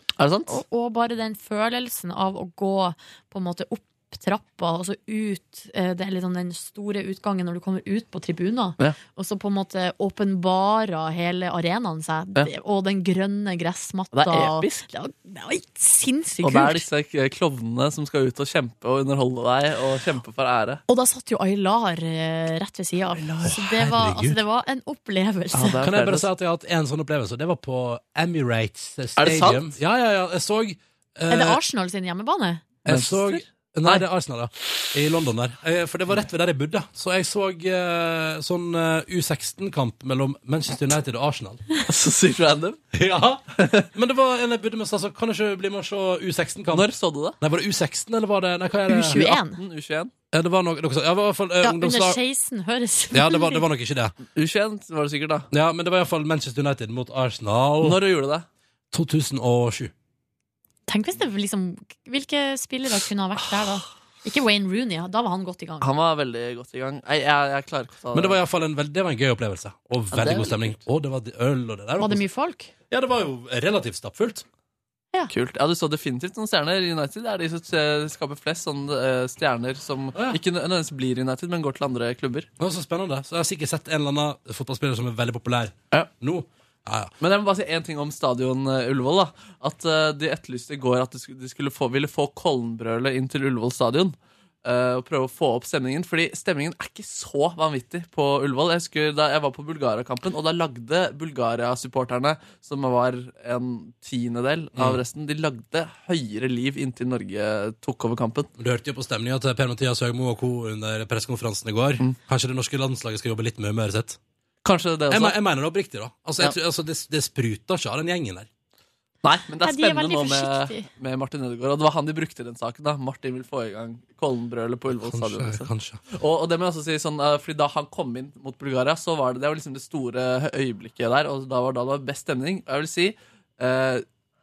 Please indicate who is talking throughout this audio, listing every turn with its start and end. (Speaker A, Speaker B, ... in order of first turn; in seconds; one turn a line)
Speaker A: 0.2-0.6
Speaker B: 0.5-16.9
Speaker A: 14.1-14.8
Speaker A: 16.4-20.8
Speaker B: 20.9-25.8
Speaker C: 23.4-24.4
Speaker A: 25.5-26.3
Speaker C: 25.8-31.6
Speaker A: 29.2-29.8
Speaker B: 31.3-32.6
Speaker A: 32.8-34.0
Speaker C: 32.9-41.6
Speaker A: 41.9-42.8
Speaker C: 42.9-49.4
Speaker A: 46.7-47.4
Speaker B: 48.9-49.6
Speaker A: 49.1-50.1
Speaker C: 50.3-52.2
Speaker B: 51.6-53.6
Speaker C: 53.1-54.1
Speaker A: 54.3-55.5
Speaker C: 55.5-58.0
Speaker A: 57.8-58.5
Speaker C: 58.9-59.9
Speaker B: 60.9-65.9
Speaker A: 65.8-68.4
Speaker C: 68.1-72.2
Speaker A: 70.1-70.7
Speaker B: 72.0-72.7
Speaker C: 72.9-74.4
Speaker A: 75.3-82.5
Speaker C: 80.1-80.4
Speaker C: 82.6-87.1
Speaker A: 87.2-108.5
Speaker C: 104.7-105.0
Speaker C: 108.6-114.2
Speaker A: 114.6-115.4
Speaker C: 115.1-118.5
Speaker A: 119.2-134.0
Speaker B: 119.6-120.9
Speaker C: 124.9-126.0